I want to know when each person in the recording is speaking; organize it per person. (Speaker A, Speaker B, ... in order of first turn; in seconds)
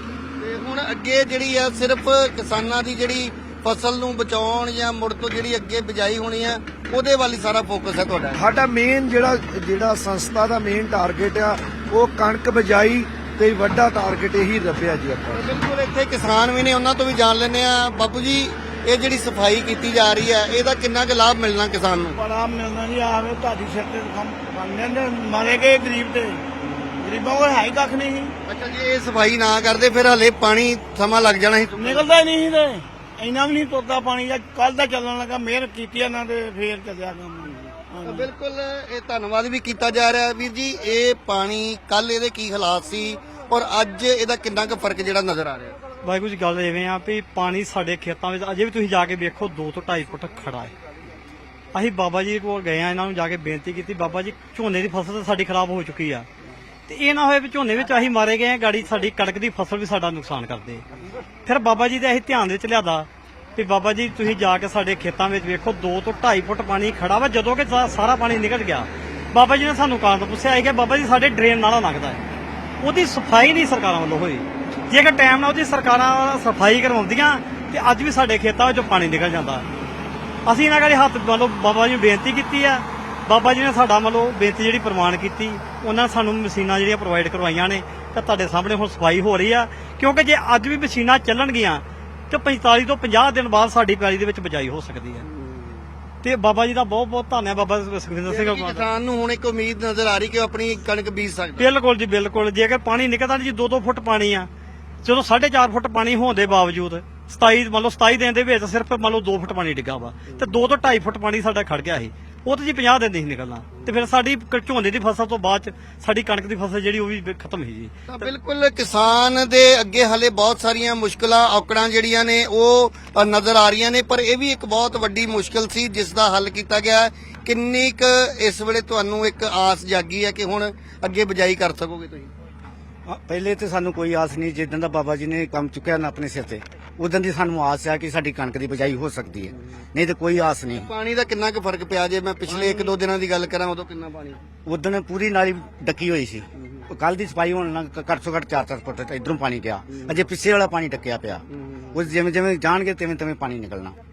Speaker A: 0.4-8.4, 15.3-22.2, 28.4-32.1, 38.0-45.8, 98.3-101.7, 118.1-132.3, 140.7-144.4
Speaker B: 8.3-15.5
Speaker C: 22.1-28.3, 31.8-38.3
Speaker D: 46.0-50.7, 51.7-56.3, 56.9-60.8, 61.5-72.2, 72.8-79.7, 80.5-95.2, 96.2-98.8, 101.6-104.5, 105.0-118.0
Speaker E: 133.1-140.8, 142.6-142.9, 144.7-153.9